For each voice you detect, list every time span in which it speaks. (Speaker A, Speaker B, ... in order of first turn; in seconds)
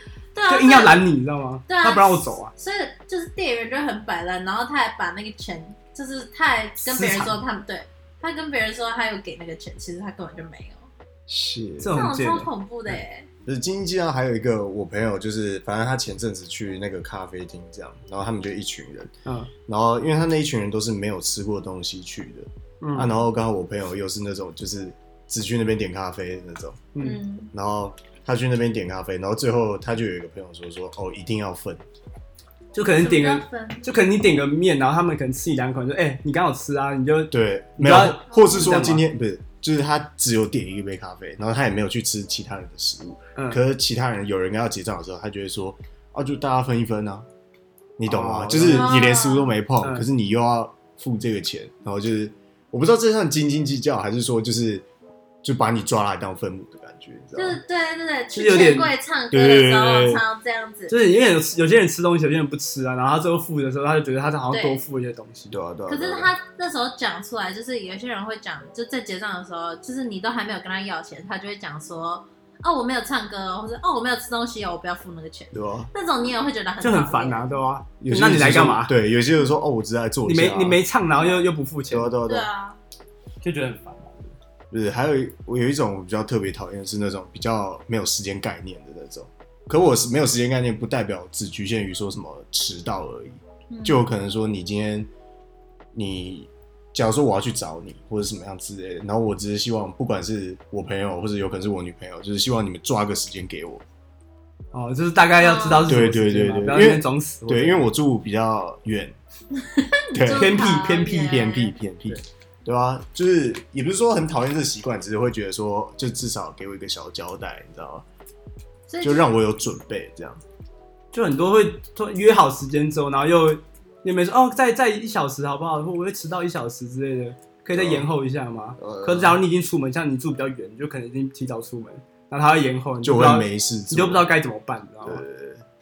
Speaker A: 0.3-1.1, 1.7-10.9, 11.9-13.3, 27.0-27.5, 33.0-33.9, 38.3-38.8, 48.7-49.5, 57.4-61.0, 64.5-64.8, 65.9-77.6, 82.2-82.8, 93.7-94.1, 105.4-106.0, 109.6-111.8, 118.9-119.3
Speaker B: 0.5-2.5, 6.8-7.4, 11.8-12.5, 19.3-19.5, 22.8-23.1, 26.9-27.2, 32.7-39.0, 48.0-49.0, 49.8-50.1, 58.3-59.0, 60.9-65.6, 76.8-78.9, 80.2-82.2, 83.4-84.3, 104.7-107.9, 110.3-111.4, 121.1-135.2
Speaker C: 11.3-11.9, 13.5-19.1, 19.7-26.9, 27.5-31.8, 37.3-47.3, 48.0-54.9, 55.4-57.6, 59.3-60.2, 65.5-66.3, 75.5-75.9, 78.0-80.8, 81.9-82.5, 84.7-95.1, 95.9-103.8, 105.9-109.2, 110.1-118.0, 119.0-120.4, 127.7-128.1, 128.8-129.4, 133.0-134.3, 135.0-135.6